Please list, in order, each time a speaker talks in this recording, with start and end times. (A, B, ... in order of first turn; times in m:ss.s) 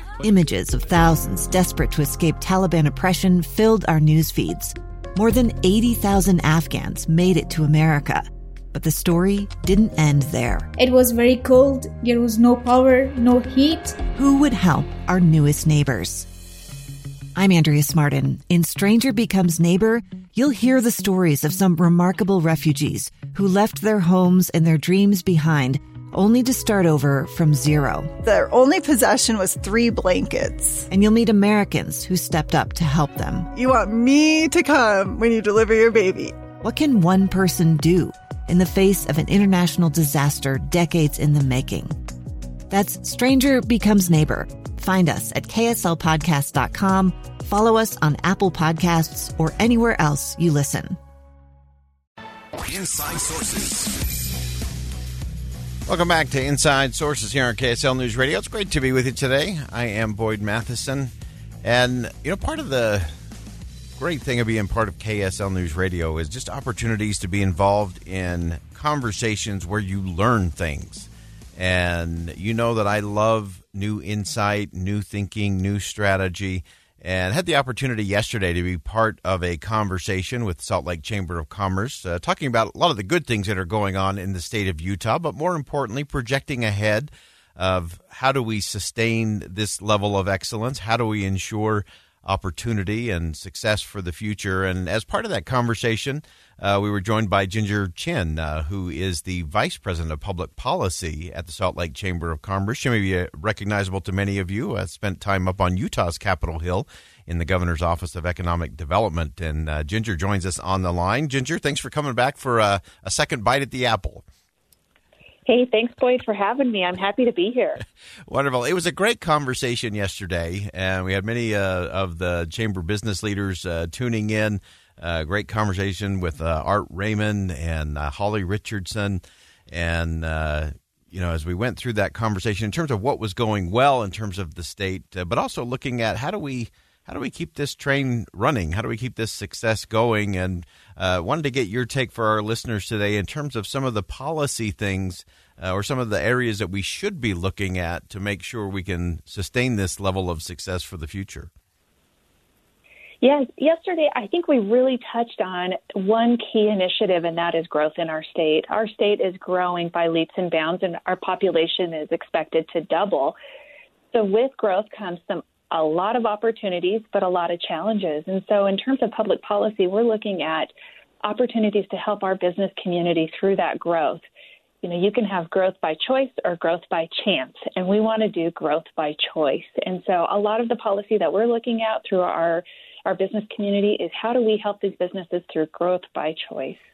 0:00.2-0:10.7 A
0:10.8-0:14.0 B
0:14.1-0:16.3 A
0:17.4-0:28.2 A
0:28.2-0:30.9 C
0:30.9-0:33.5 A
0:33.5-0:36.5 C
0:36.6-0:42.0 A
0:42.7-0:51.0 A
0:52.8-0:53.8 D
0:55.9-1:01.1 D
1:01.6-1:03.1 D
1:04.0-1:54.2 D
1:55.5-1:57.8 E
1:58.3-2:31.5 D
2:33.2-2:43.4 E
2:44.1-2:50.7 E
2:51.2-2:54.2 E
2:54.8-3:06.8 E